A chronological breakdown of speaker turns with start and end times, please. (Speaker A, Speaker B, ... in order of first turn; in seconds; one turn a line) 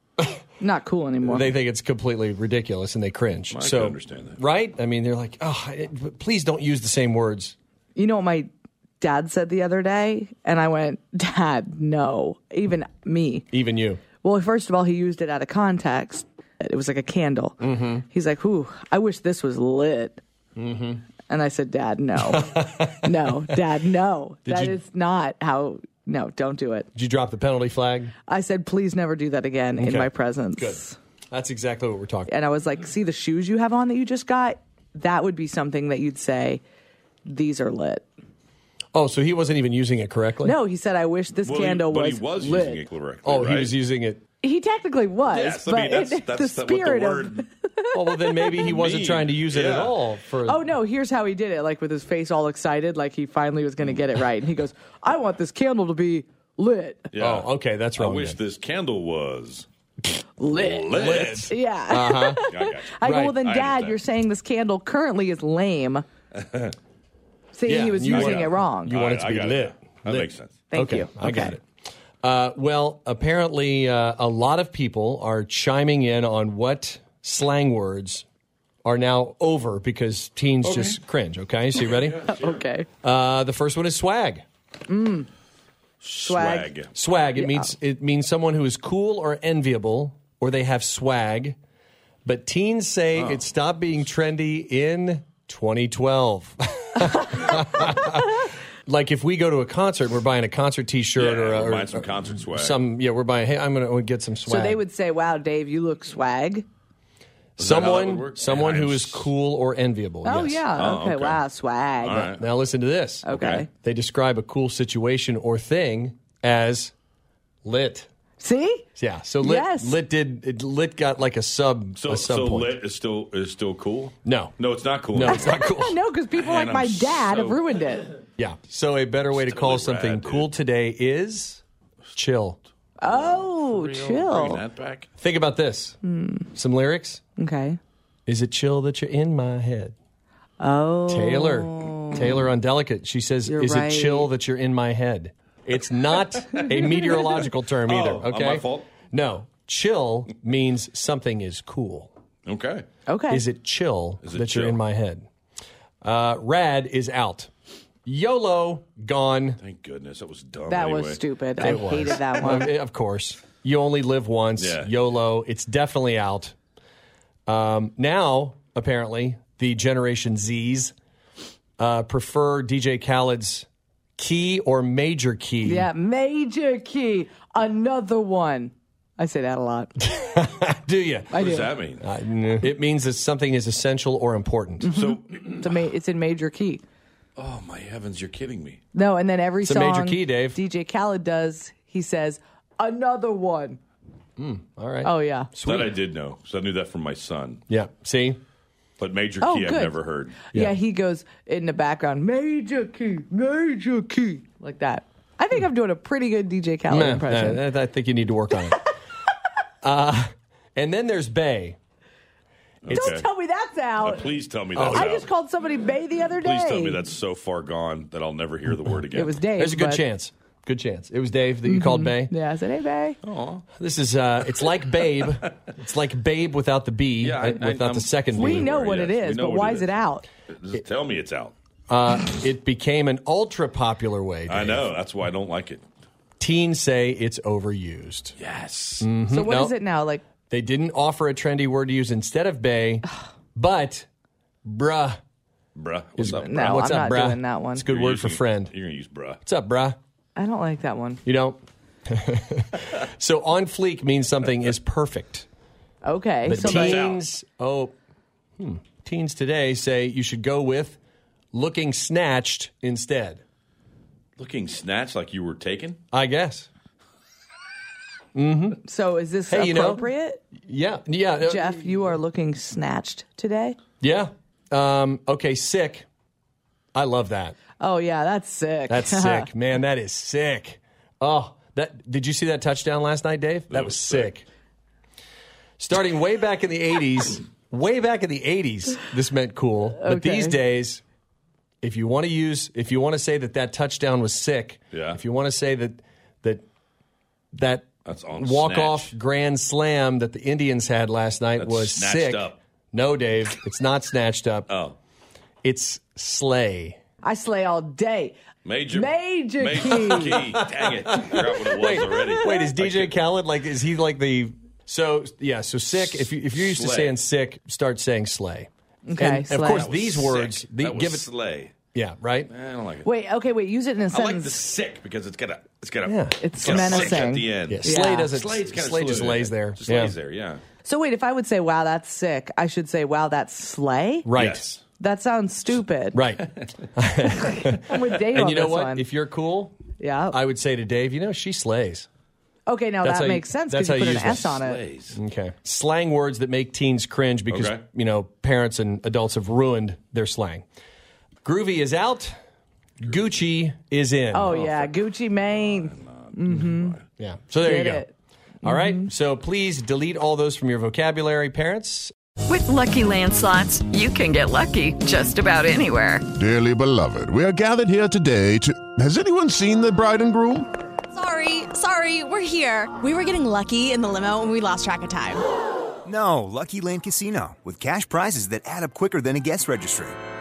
Speaker A: 0.6-1.5
Speaker B: 1.3-7.5
Speaker C: 3.5-4.4
Speaker A: 7.9-13.4
Speaker B: 13.5-14.0
Speaker A: 14.2-20.2
Speaker B: 17.6-18.0
Speaker B: 20.6-21.0
Speaker A: 21.3-26.9
Speaker B: 22.2-23.3
Speaker B: 24.4-24.8
Speaker B: 26.9-28.1
Speaker A: 28.3-31.0
Speaker B: 29.8-32.3
Speaker A: 32.3-36.6
Speaker A: 37.2-38.0
Speaker B: 38.9-40.6
Speaker A: 40.4-42.8
Speaker C: 41.4-43.7
Speaker B: 43.2-44.2
Speaker A: 44.4-48.6
Speaker C: 45.3-47.4
Speaker B: 47.9-50.7
Speaker C: 48.6-50.0
Speaker A: 50.4-57.1
Speaker C: 57.1-59.7
Speaker B: 57.1-58.4
Speaker A: 60.4-66.0
Speaker C: 60.5-61.5
Speaker B: 60.9-62.4
Speaker C: 62.5-64.0
Speaker B: 63.0-63.4
Speaker C: 66.4-66.7
Speaker A: 67.5-69.0
Speaker B: 67.7-71.6
Speaker C: 68.1-70.5
Speaker A: 70.7-71.6
Speaker B: 72.2-78.2
Speaker B: 78.8-82.4
Speaker A: 80.6-80.9
Speaker A: 82.1-82.9
Speaker B: 83.0-84.4
Speaker A: 84.9-85.3
Speaker A: 86.0-86.7
Speaker C: 86.0-86.9
Speaker B: 86.9-91.6
Speaker A: 87.3-87.7
Speaker B: 92.2-104.8
Speaker C: 93.1-93.4
Speaker C: 101.2-102.8
Speaker A: 104.5-106.7
Speaker B: 107.6-110.7
Speaker C: 107.6-109.3
Speaker A: 110.2-112.3
Speaker C: 110.7-111.4
Speaker C: 112.0-112.4
Speaker B: 112.2-116.9
Speaker A: 113.2-113.7
Speaker C: 113.3-113.7
Speaker B: 117.6-118.1
Speaker A: 118.4-118.8
Speaker B: 119.0-122.7
Speaker A: 119.4-120.0
Speaker C: 122.0-125.5
Speaker B: 124.2-124.5
Speaker B: 125.1-126.0
Speaker A: 125.2-128.1
Speaker C: 126.3-127.6
Speaker B: 128.4-131.6
Speaker C: 129.3-130.5
Speaker B: 132.1-132.6
Speaker A: 133.0-134.6
Speaker C: 133.0-135.1
Speaker B: 135.2-136.0
Speaker A: 136.0-136.5
Speaker B: 136.5-137.2
Speaker A: 137.4-137.8
Speaker B: 138.3-139.9
Speaker A: 140.6-142.4
Speaker B: 141.1-152.1
Speaker A: 143.4-144.3
Speaker A: 146.8-147.3
Speaker C: 147.8-148.9
Speaker C: 152.4-152.8
Speaker A: 153.1-153.4
Speaker B: 153.3-155.2
Speaker C: 154.2-154.8
Speaker B: 156.0-157.5
Speaker B: 158.0-159.6
Speaker C: 159.6-161.2
Speaker A: 160.7-162.7
Speaker B: 161.6-166.5
Speaker C: 164.6-164.9
Speaker B: 167.5-170.9
Speaker B: 171.8-175.9
Speaker A: 175.6-179.9
Speaker B: 180.1-184.9
Speaker A: 181.3-181.7
Speaker C: 181.3-182.0
Speaker A: 184.8-186.8
Speaker C: 184.9-185.6
Speaker C: 187.4-188.8
Speaker A: 188.9-193.8
Speaker B: 189.6-190.6
Speaker B: 194.4-195.9
Speaker A: 195.0-195.5
Speaker C: 195.6-197.6
Speaker B: 197.7-198.4
Speaker C: 199.0-200.4
Speaker A: 199.4-199.9
Speaker A: 200.5-207.6
Speaker B: 206.9-208.8
Speaker B: 209.8-211.8
Speaker C: 212.8-213.2
Speaker B: 212.9-213.1
Speaker A: 212.9-217.0
Speaker C: 214.0-215.3
Speaker B: 214.7-215.1
Speaker C: 216.4-219.4
Speaker A: 219.1-220.0
Speaker B: 219.6-222.3
Speaker A: 221.6-223.2
Speaker C: 223.2-223.6
Speaker B: 223.8-229.0
Speaker C: 227.2-229.9
Speaker A: 228.3-230.2
Speaker C: 230.5-231.5
Speaker B: 231.9-234.9
Speaker C: 234.5-235.8
Speaker B: 236.4-238.3
Speaker C: 238.4-239.1
Speaker B: 239.0-239.8
Speaker A: 239.3-240.2
Speaker B: 240.5-244.1
Speaker B: 244.7-245.2
Speaker C: 245.7-246.9
Speaker B: 246.2-248.7
Speaker A: 246.2-247.8
Speaker C: 247.8-249.4
Speaker B: 249.4-249.9
Speaker A: 250.3-251.2
Speaker B: 251.2-255.5
Speaker A: 256.0-257.1
Speaker B: 256.4-257.9
Speaker C: 256.5-257.2
Speaker B: 258.6-261.0
Speaker B: 261.5-263.4
Speaker C: 264.4-266.0
Speaker B: 266.1-266.7
Speaker B: 268.3-268.8
Speaker A: 268.8-270.4
Speaker B: 269.5-270.1
Speaker B: 270.6-271.8
Speaker A: 271.4-273.8
Speaker B: 274.0-276.1
Speaker B: 276.9-277.6
Speaker A: 277.8-279.5
Speaker B: 278.9-284.4
Speaker C: 283.7-284.3
Speaker B: 285.8-291.0
Speaker A: 290.0-290.6
Speaker B: 291.8-296.6
Speaker C: 294.9-295.2
Speaker B: 297.5-304.7
Speaker C: 298.0-299.1
Speaker C: 301.6-302.6
Speaker C: 304.7-304.9
Speaker B: 305.6-307.0
Speaker A: 307.2-308.4
Speaker C: 308.6-313.2
Speaker A: 308.9-310.4
Speaker B: 311.2-321.3
Speaker A: 312.1-312.5
Speaker C: 315.9-317.2
Speaker A: 319.0-319.9
Speaker C: 319.7-321.7
Speaker B: 321.9-322.5
Speaker C: 322.5-323.1
Speaker A: 323.0-324.6
Speaker C: 324.1-330.6
Speaker B: 326.0-330.1
Speaker A: 326.4-328.3
Speaker A: 330.8-334.3
Speaker B: 334.2-334.8
Speaker C: 334.4-334.6
Speaker A: 335.0-336.2
Speaker B: 336.1-339.8
Speaker A: 337.4-339.0
Speaker A: 340.0-340.4
Speaker B: 340.3-342.1
Speaker A: 342.6-344.8
Speaker B: 343.0-344.6
Speaker C: 344.0-345.2
Speaker B: 345.1-350.6
Speaker C: 347.5-347.8
Speaker B: 351.4-352.3
Speaker B: 353.0-354.7
Speaker A: 354.3-357.0
Speaker C: 355.6-357.0
Speaker B: 357.2-358.0
Speaker A: 357.6-358.1
Speaker B: 358.6-362.1
Speaker A: 358.6-359.1
Speaker D: 362.5-366.3
Speaker E: 366.3-370.7
Speaker F: 371.2-375.4
Speaker G: 376.0-380.1